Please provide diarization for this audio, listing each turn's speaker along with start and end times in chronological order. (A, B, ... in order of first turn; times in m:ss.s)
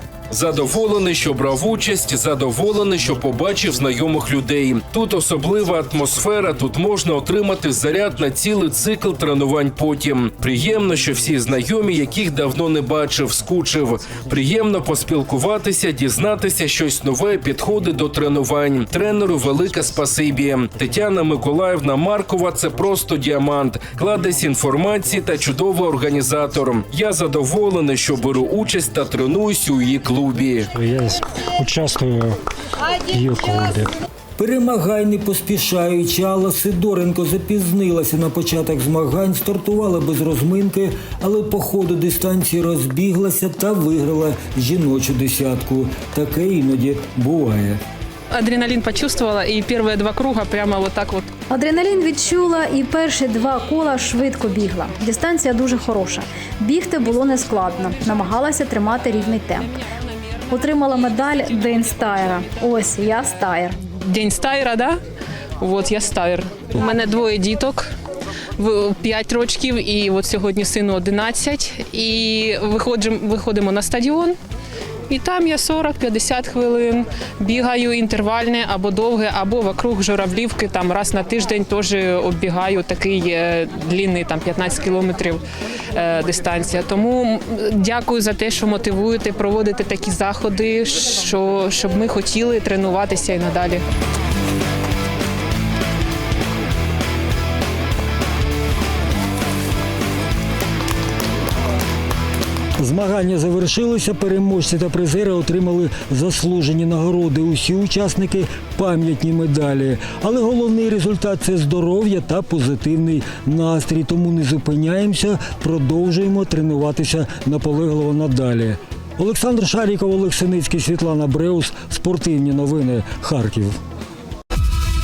0:00.3-0:30.7 A
0:30.7-0:32.4 B
0:33.1-0:33.9 B
0:34.4-0:47.8 C
0:48.3-0:51.3 D
0:51.5-0:59.7 E
1:00.5-1:03.8 E
1:04.0-1:05.0 D
1:05.6-1:07.9 D
1:08.6-1:14.4 D
1:15.1-1:25.4 D
1:25.9-1:33.8 D
1:42.8-2:03.8 C